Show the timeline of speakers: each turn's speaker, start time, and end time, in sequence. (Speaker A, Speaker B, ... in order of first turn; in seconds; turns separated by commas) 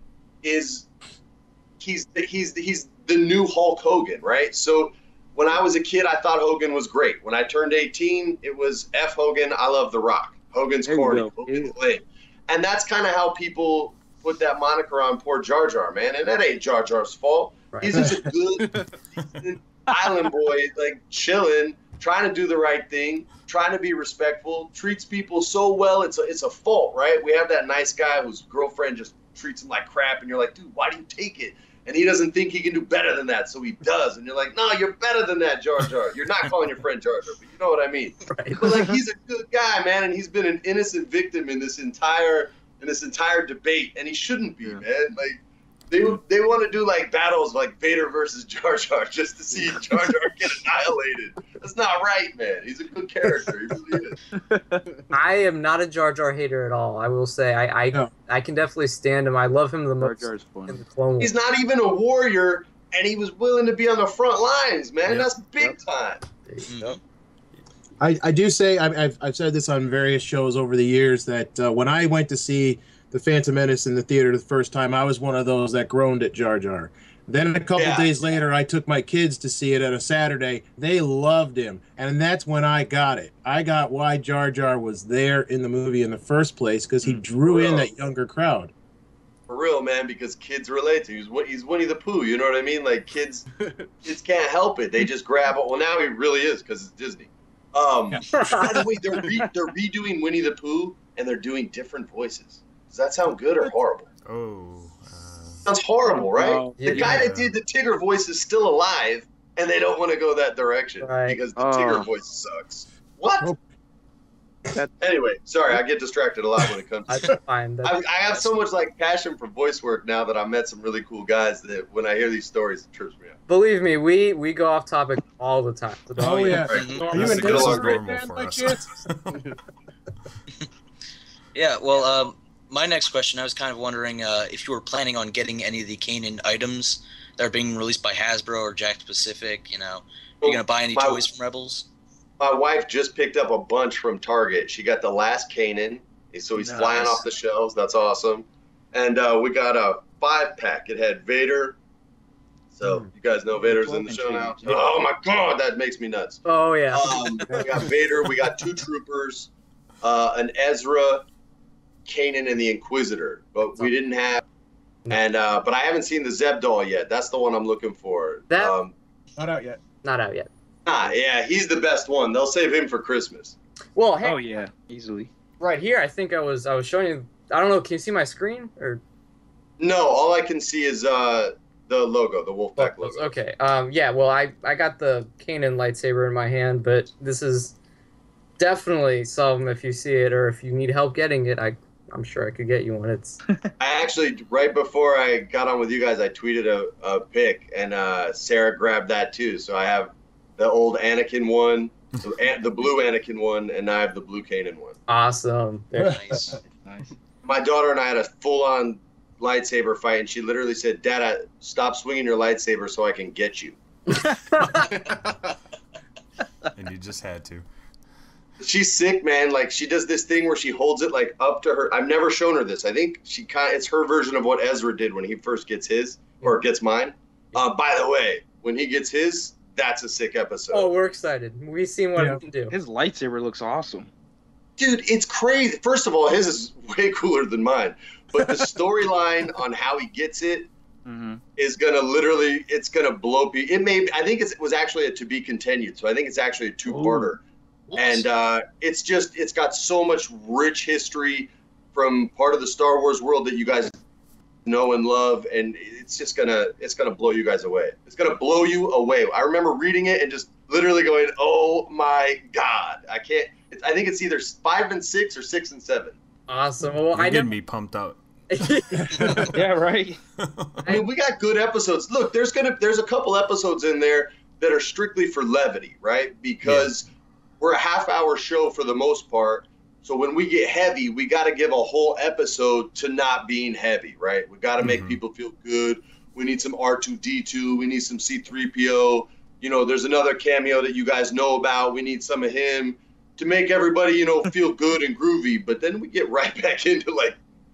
Speaker A: 0.4-0.9, Speaker A: 1.8-45.4, Speaker B: 10.8-11.7, Speaker C: 17.7-18.1, Speaker C: 38.3-38.6, Speaker A: 45.9-54.2, Speaker B: 54.3-54.8, Speaker C: 55.1-61.3, Speaker B: 60.0-60.8, Speaker A: 61.2-66.2, Speaker D: 66.7-67.0, Speaker E: 68.0-88.7, Speaker A: 77.8-78.1, Speaker A: 87.4-87.9, Speaker A: 89.5-93.5, Speaker A: 94.0-104.1, Speaker C: 98.3-98.7, Speaker F: 104.2-105.6, Speaker A: 105.7-113.5, Speaker B: 106.1-107.2, Speaker C: 106.8-107.2, Speaker F: 106.9-107.5, Speaker C: 111.0-111.4, Speaker B: 111.6-112.1, Speaker A: 115.0-123.4, Speaker C: 117.1-118.5, Speaker C: 123.5-128.0, Speaker E: 126.2-129.1, Speaker D: 126.7-127.1, Speaker F: 127.1-129.6, Speaker D: 131.5-141.9, Speaker A: 140.4-141.2, Speaker A: 142.4-151.8, Speaker B: 146.6-147.2, Speaker A: 152.8-159.5, Speaker B: 153.6-154.9, Speaker C: 156.5-157.2, Speaker A: 160.0-161.2, Speaker A: 162.1-164.4, Speaker A: 165.1-168.9, Speaker E: 169.4-169.8, Speaker C: 170.0-170.5, Speaker A: 170.9-173.6, Speaker C: 174.0-174.4, Speaker B: 174.2-175.3, Speaker C: 175.6-179.0, Speaker A: 179.8-183.3, Speaker C: 182.8-187.8, Speaker C: 188.6-193.4, Speaker A: 193.8-205.0, Speaker C: 205.1-206.4, Speaker D: 206.2-206.5, Speaker B: 206.4-207.1, Speaker A: 207.4-213.8, Speaker C: 214.5-214.8, Speaker F: 216.8-217.7, Speaker A: 218.6-230.9, Speaker C: 230.7-232.7, Speaker B: 232.7-234.1, Speaker A: 234.8-240.7, Speaker B: 241.1-241.4, Speaker A: 241.6-247.4, Speaker B: 246.9-247.3, Speaker A: 247.9-254.0, Speaker A: 254.7-266.2, Speaker C: 266.5-267.5, Speaker F: 267.1-269.6, Speaker C: 268.5-269.3, Speaker E: 269.0-269.5, Speaker B: 269.5-270.2, Speaker F: 270.4-270.9, Speaker A: 270.9-277.1, Speaker F: 276.6-276.9, Speaker A: 277.6-297.4, Speaker F: 284.8-285.2